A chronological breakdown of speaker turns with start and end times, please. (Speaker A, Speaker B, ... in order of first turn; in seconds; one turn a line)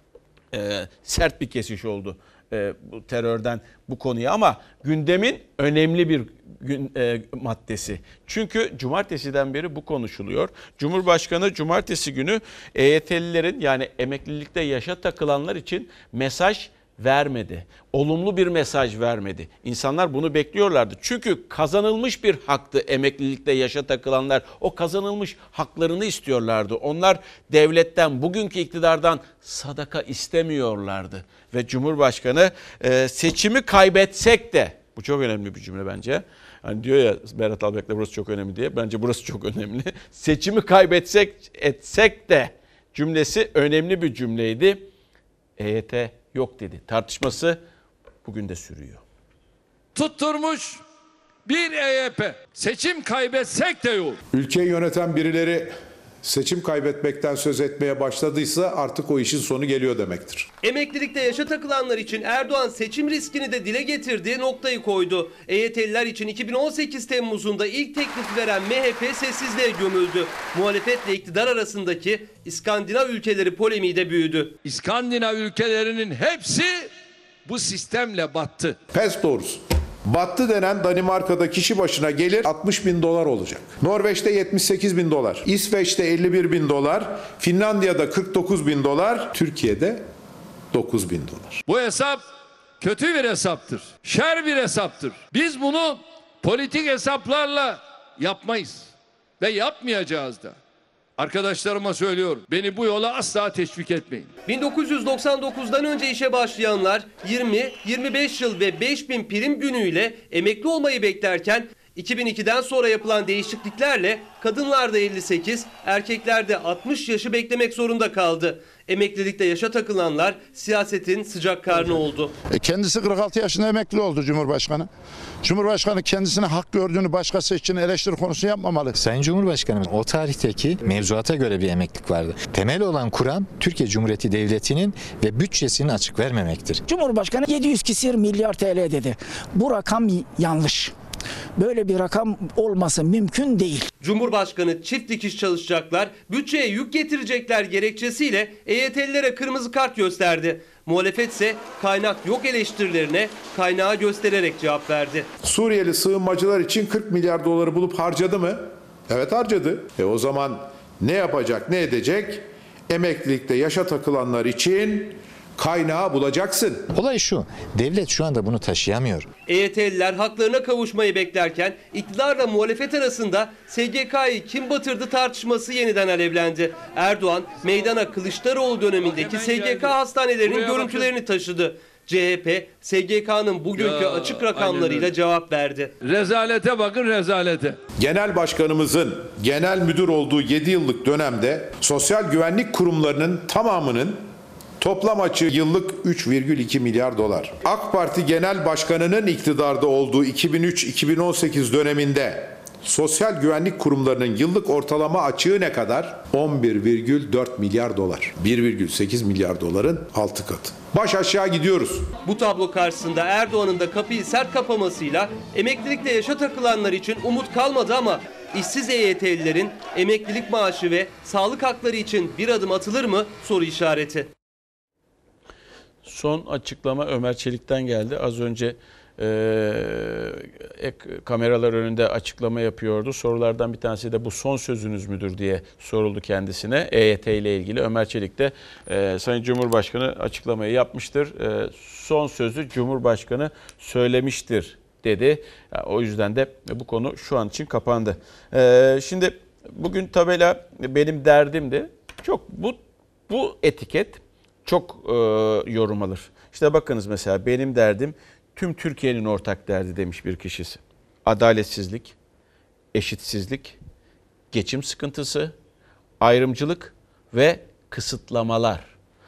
Speaker A: 0.5-44.9
Speaker A: 45.6-47.6
Speaker A: 48.2-49.0
Speaker B: 49.9-50.8
Speaker B: 51.5-54.2
Speaker C: 54.3-60.5
Speaker D: 60.6-74.5
Speaker B: 74.6-76.9
Speaker B: 77.5-78.8
Speaker C: 78.9-90.1
Speaker C: 90.7-91.6
Speaker B: 91.7-92.2
Speaker B: 92.8-100.5
Speaker B: 101.2-104.3
Speaker D: 104.5-122.3
Speaker E: 122.5-124.9
Speaker E: 125.4-128.9
Speaker F: 129.0-136.8
Speaker G: 136.9-140.9
Speaker G: 141.6-143.9
Speaker D: 144.0-155.3
Speaker C: 155.4-166.9
Speaker F: 166.9-169.3
Speaker D: 169.5-185.9
Speaker B: 179.0-181.1
Speaker B: 183.8-185.1
Speaker B: 186.0-187.8
Speaker C: 188.0-194.3
Speaker C: 194.8-212.1
Speaker D: 212.2-224.3
Speaker A: 226.0-262.1
Speaker A: 262.9-263.8
Speaker A: 264.5-265.5
Speaker A: 266.2-268.9